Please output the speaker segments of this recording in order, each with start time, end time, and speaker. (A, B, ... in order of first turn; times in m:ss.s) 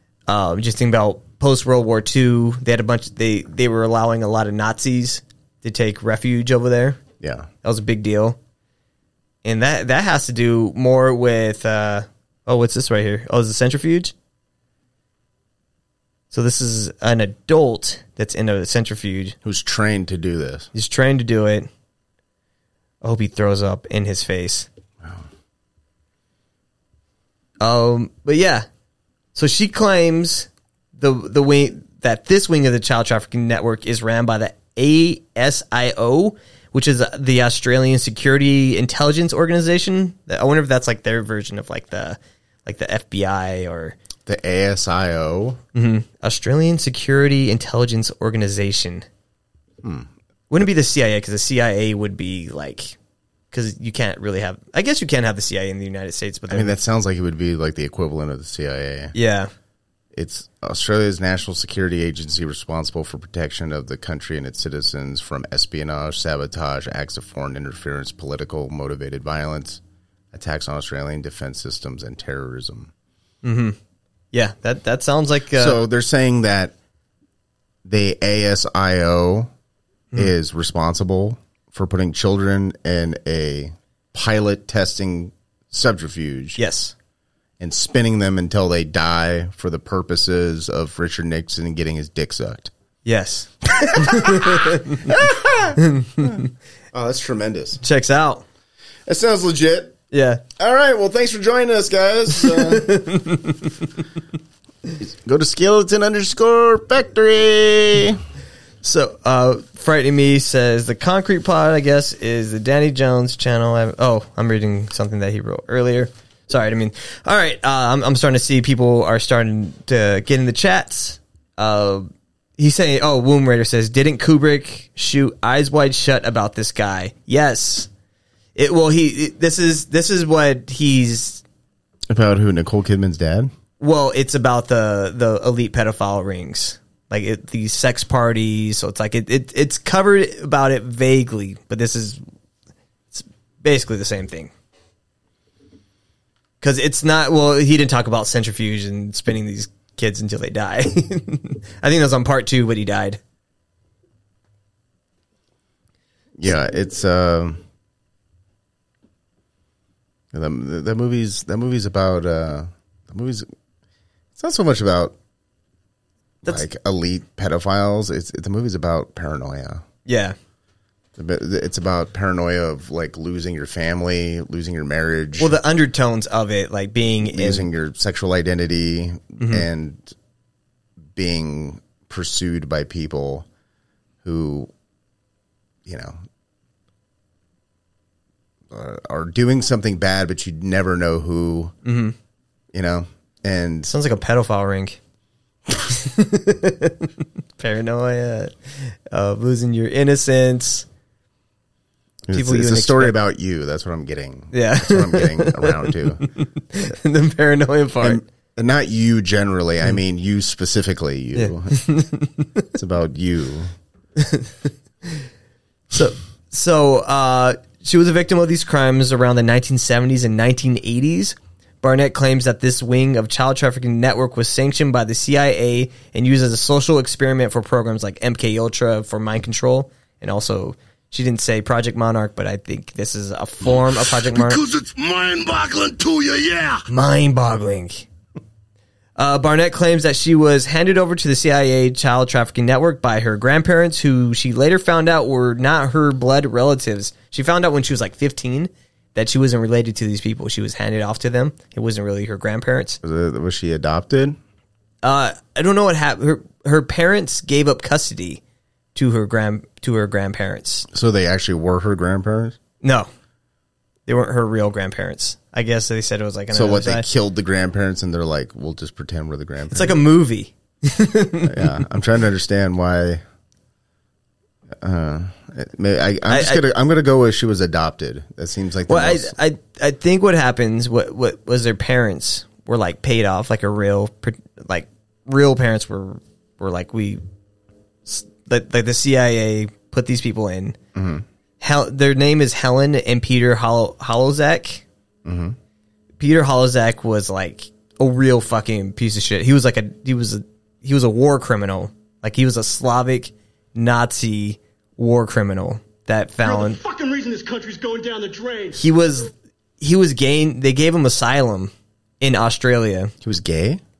0:00.3-0:07.0 A
0:07.2-0:07.5 B
0:07.6-0:08.4 A
0:09.4-0:14.1 A
0:16.3-0:19.4 A
0:19.4-0:20.7 B
0:20.7-0:21.7 A
0:23.0-0:24.7 A
0:27.6-0:28.6 A
0:29.3-0:44.0 A
0:44.2-0:45.6 B
0:45.7-0:49.0 A
0:49.8-0:50.1 B
0:50.5-0:53.0 A
0:53.5-0:56.8 A
0:56.5-0:59.1 B
0:59.1-0:59.5 A
1:00.1-1:12.9 B
1:13.4-1:13.8 A
1:14.3-1:15.8 A
1:15.5-1:16.7 B
1:17.8-1:19.5 B
1:20.1-1:26.6 B
1:26.6-1:26.9 A
1:27.6-1:32.7 B
1:33.0-1:35.1 A
1:33.7-1:37.8 B
1:35.8-1:36.4 A
1:37.8-1:38.4 A
1:39.1-1:40.0 B
1:40.1-1:40.4 A
1:40.6-1:42.9 B
1:42.4-1:43.8 A
1:45.0-1:48.2 B
1:48.8-2:07.9 A
2:08.6-2:11.4 A
2:12.1-2:13.5 B
2:13.8-2:22.2 A
2:23.1-2:24.5 A
2:26.6-2:33.2 A
2:36.4-2:37.6 B
2:40.3-2:43.5 B
2:44.4-2:45.1 B
2:46.4-2:49.8 B
2:50.0-2:50.3 A
2:51.2-2:55.6 B
2:55.4-2:57.7 A
2:57.2-3:00.1 B
2:59.4-2:59.6 A
3:01.2-3:03.5 B
3:04.2-3:04.7 B
3:05.8-3:06.2 B
3:08.7-3:11.8 B
3:11.8-3:12.1 A
3:12.7-3:14.0 B
3:13.9-3:15.0 A
3:15.9-3:20.8 A
3:22.2-3:26.3 B
3:22.3-3:23.2 A
3:24.5-3:28.2 A
3:28.0-3:31.8 B
3:31.3-3:32.6 A
3:32.7-3:33.7 B
3:34.2-3:35.2 A
3:35.9-3:54.6 A
3:54.1-3:56.8 C
3:56.9-3:58.1 A
3:59.2-4:13.0 A
4:13.0-4:14.4 B
4:15.0-4:18.4 A
4:18.9-4:20.8 A
4:20.9-4:22.6 B
4:22.8-4:23.1 A
4:24.1-4:27.0 A
4:26.5-4:30.0 B
4:29.7-4:31.8 A
4:31.4-4:33.2 B
4:34.7-4:39.3 B
4:36.3-4:36.6 A
4:38.9-4:47.2 A
4:48.0-4:50.8 A
4:50.9-4:51.2 B
4:51.6-4:54.8 A
4:55.2-4:55.6 B
4:56.2-5:06.8 A
5:06.4-5:08.8 D
5:08.7-5:13.1 A
5:13.2-5:13.8 B